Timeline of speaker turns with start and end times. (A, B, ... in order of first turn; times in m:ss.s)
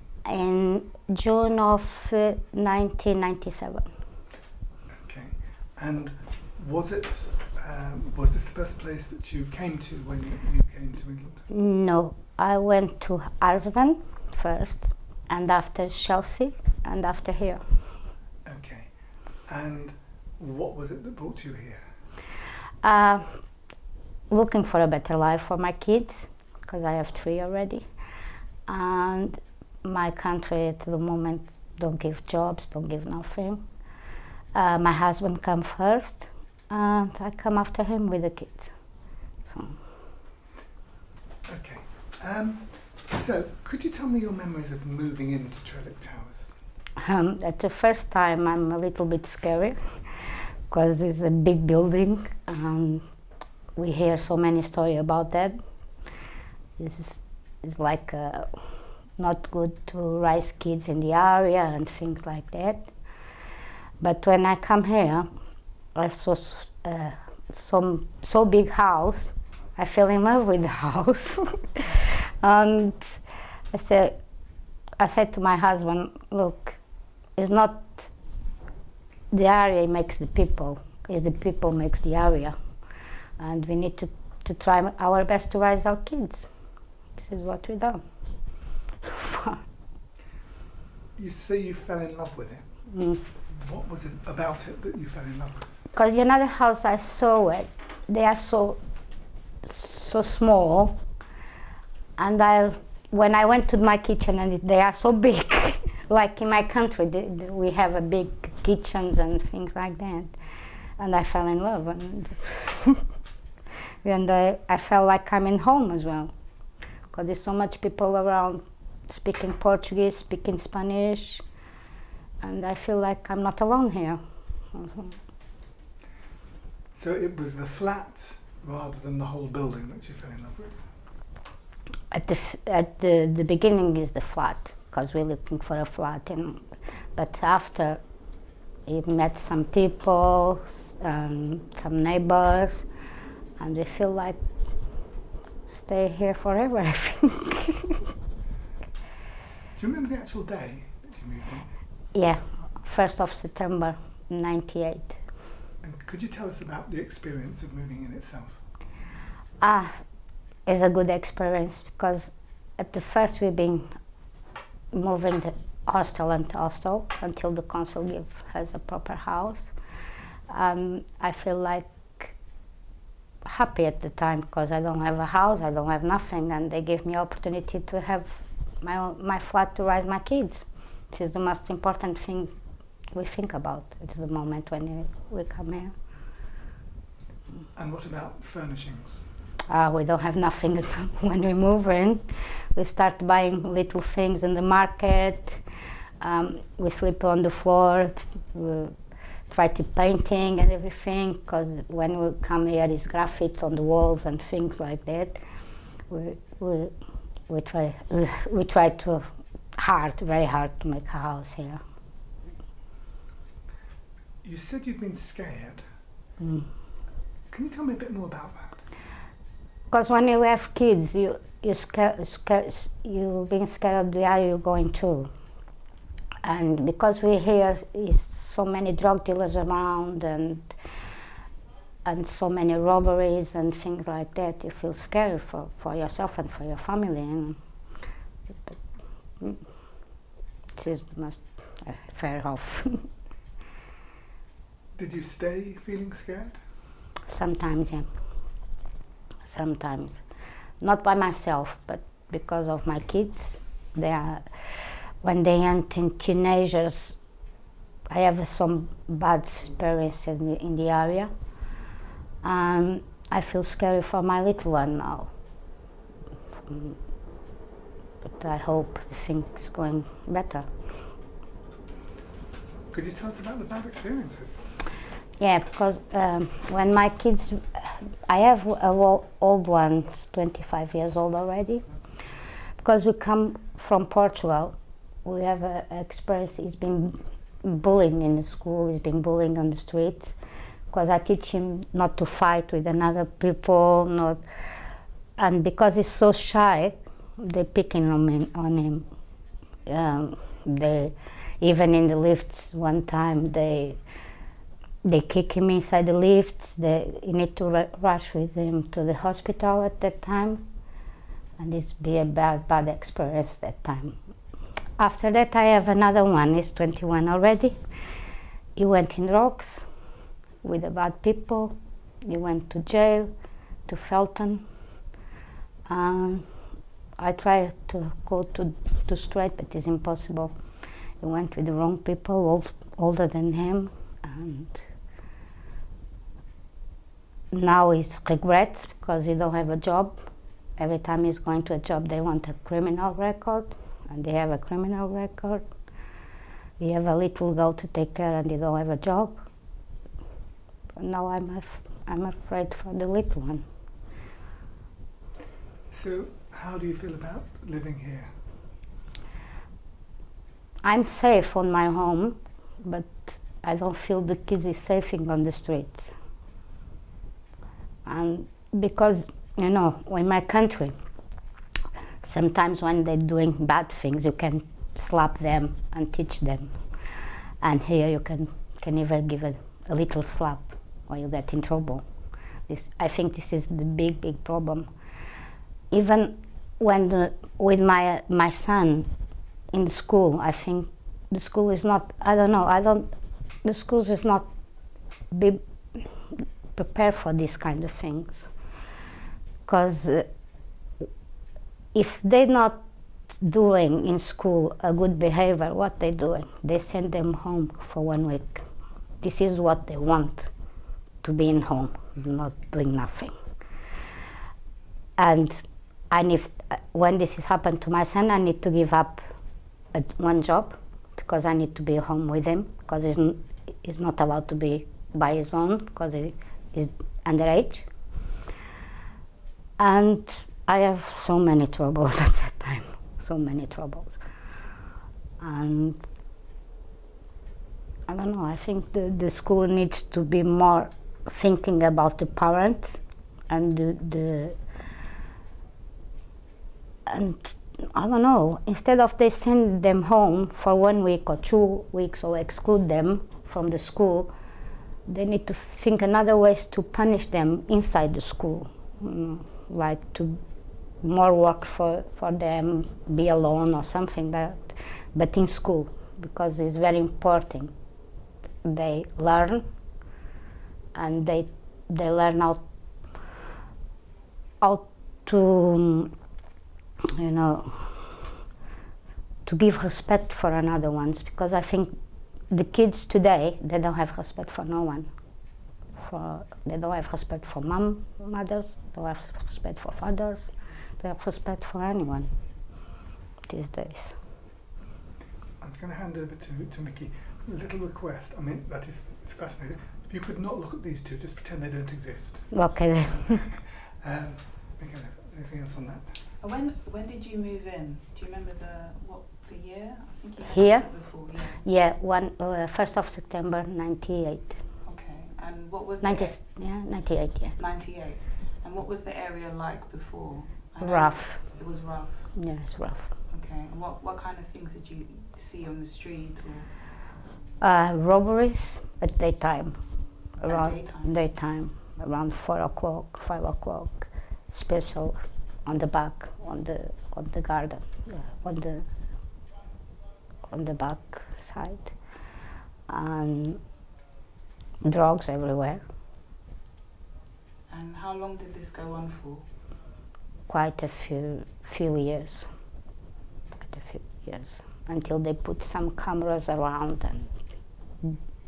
0:00.2-0:03.9 A
0:05.0-0:11.4 B
0:11.5-0:17.6 A
0:18.4-0:21.9 B
0:22.8-0:23.4 A
0:24.3-0:27.9 A
0:28.7-0:33.6 A
0:34.5-0:38.7 A
0:39.4-0:39.8 A
0:41.5-0:46.6 B
0:47.0-0:53.0 A
0:53.8-0:55.6 A
0:56.8-0:58.6 A
0:59.2-1:02.9 A
1:04.0-1:05.3 A
1:06.0-1:14.2 A
1:15.0-1:16.8 A
1:17.4-1:18.1 A
1:19.3-1:22.6 A
1:23.4-1:26.5 A
1:27.2-1:28.0 A
1:29.0-1:29.6 A
1:31.2-1:32.6 B
1:32.9-1:33.2 A
1:33.5-1:35.7 B
1:35.9-1:38.8 A
1:39.6-1:41.0 A
1:42.2-1:53.1 A
1:54.0-1:56.3 A
1:57.1-2:01.4 A
2:02.4-2:05.2 A
2:06.9-2:10.9 B
2:12.1-2:18.0 A
2:18.9-2:22.9 A
2:23.6-2:24.4 A
2:25.7-2:27.9 A
2:29.8-2:31.8 B
2:32.1-2:35.2 A
2:35.8-2:38.6 B
2:39.6-2:39.9 A
2:40.7-2:43.9 A
2:44.9-2:49.7 A
2:50.5-2:52.4 A
2:53.4-3:02.5 A
3:03.1-3:05.9 A
3:07.8-3:09.2 B
3:09.7-3:15.6 A
3:16.2-3:19.0 A
3:19.5-3:25.4 A
3:26.1-3:26.9 A
3:27.5-3:31.8 A
3:34.4-3:35.8 B
3:36.4-3:36.7 A
3:37.5-3:38.8 B
3:39.9-3:45.3 A
3:46.4-3:50.8 A
3:52.0-3:57.6 A
3:59.4-3:59.6 A
4:00.8-4:03.1 A
4:05.0-4:06.6 B
4:07.3-4:08.1 A
4:09.5-4:10.2 A
4:10.8-4:17.2 A
4:18.1-4:21.3 A
4:22.4-4:25.3 A
4:26.7-4:27.0 A
4:28.2-4:30.7 A
4:32.9-4:34.7 B
4:35.4-4:41.9 A
4:42.8-4:50.4 A
4:50.9-4:54.4 A
4:55.4-4:59.1 A
4:59.9-5:04.0 A
5:05.0-5:10.6 A
5:11.6-5:14.2 A
5:15.0-5:17.8 A
5:18.8-5:19.9 A
5:20.6-5:23.3 A
5:23.9-5:24.6 A
5:25.9-5:26.5 A
5:27.2-5:30.6 A
5:31.2-5:34.8 A
5:37.5-5:40.2 A
5:40.8-5:45.6 A
5:46.8-5:49.4 A
5:51.0-5:53.6 A
5:55.9-5:58.4 B
6:00.8-6:06.1 A
6:08.0-6:11.0 A
6:12.2-6:22.0 A
6:22.7-6:24.9 A
6:25.9-6:29.1 A
6:29.7-6:33.1 A
6:33.6-6:34.5 A
6:35.3-6:38.5 A
6:39.7-6:40.3 A
6:41.9-6:48.6 A
6:49.2-6:50.5 A
6:51.2-6:53.4 A
6:55.2-6:59.2 A
6:59.9-7:07.9 A
7:09.8-7:14.2 A
7:15.4-7:16.0 A
7:18.1-7:24.6 A
7:27.1-7:34.3 A
7:35.1-7:40.4 A
7:41.0-7:47.7 A
7:48.6-7:49.6 A
7:50.9-7:52.6 A
7:54.6-7:56.1 A
7:57.2-7:58.2 A
7:59.4-8:05.1 A
8:06.0-8:12.3 A
8:13.5-8:14.2 A
8:15.6-8:26.2 B
8:22.5-8:23.5 A
8:26.4-8:31.6 C
8:30.5-8:34.6 A
8:34.8-8:36.4 C
8:36.0-8:37.6 A
8:37.6-8:42.5 C
8:40.8-8:41.6 A
8:42.4-8:43.1 A
8:43.3-8:46.7 C
8:47.6-8:49.8 A
8:50.4-8:58.9 A
8:50.4-8:51.3 C
9:00.5-9:02.0 A
9:02.9-9:03.6 A
9:04.8-9:05.8 A
9:07.7-9:09.5 C
9:10.5-9:12.5 A
9:13.5-9:17.4 A